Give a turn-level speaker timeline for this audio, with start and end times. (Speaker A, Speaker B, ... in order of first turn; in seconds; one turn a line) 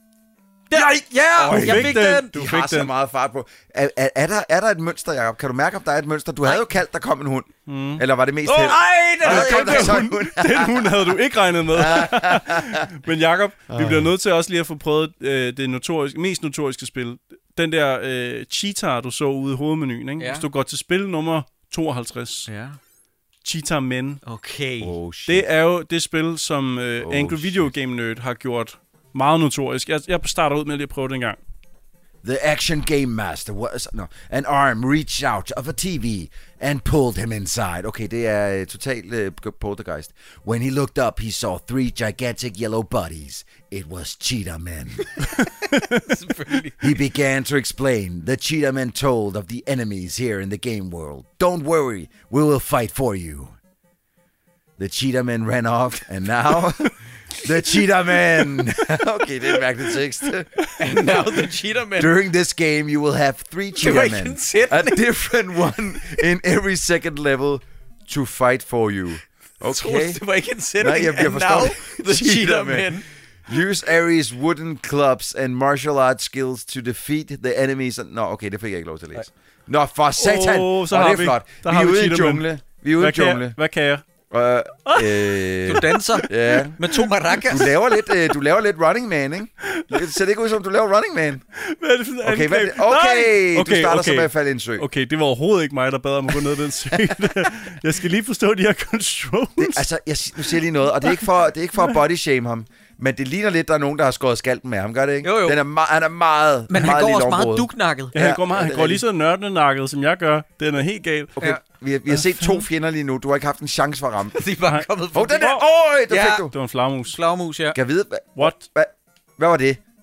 Speaker A: 0.7-2.3
Speaker B: 0.7-11.1
Speaker C: 1.5-2.9
Speaker C: 7.7-22.5
Speaker A: 8.5-10.0
Speaker B: 11.7-12.9
Speaker B: 13.7-14.1
Speaker A: 20.2-20.4
Speaker A: 22.5-22.8
Speaker C: 23.4-24.2
Speaker A: 24.2-24.9
Speaker B: 24.8-25.5
Speaker C: 25.3-31.4
Speaker B: 27.0-27.7
Speaker B: 32.2-45.1
Speaker A: 45.3-46.9
Speaker C: 45.4-46.1
Speaker B: 46.8-53.5
Speaker B: 54.8-60.6
Speaker C: 60.6-61.3
Speaker A: 60.8-62.1
Speaker B: 62.0-70.2
Speaker A: 63.8-65.0
Speaker A: 69.6-73.0
Speaker B: 70.8-83.5
Speaker C: 80.2-82.5
Speaker C: 83.0-84.0
Speaker B: 84.3-86.8
Speaker C: 84.8-87.4
Speaker A: 85.6-87.7
Speaker B: 87.5-91.4
Speaker C: 88.0-88.3
Speaker C: 89.6-90.1
Speaker C: 91.5-99.8
Speaker B: 92.2-94.8
Speaker B: 96.9-97.5
Speaker B: 99.6-109.0
Speaker A: 105.2-105.6
Speaker A: 106.7-108.1
Speaker C: 108.1-111.3
Speaker B: 111.4-114.4
Speaker C: 112.1-112.6
Speaker A: 114.3-115.5
Speaker C: 114.7-115.6
Speaker B: 115.1-116.5
Speaker A: 116.1-116.5
Speaker C: 116.5-117.2
Speaker A: 117.0-117.8
Speaker B: 117.7-119.8
Speaker C: 118.4-118.6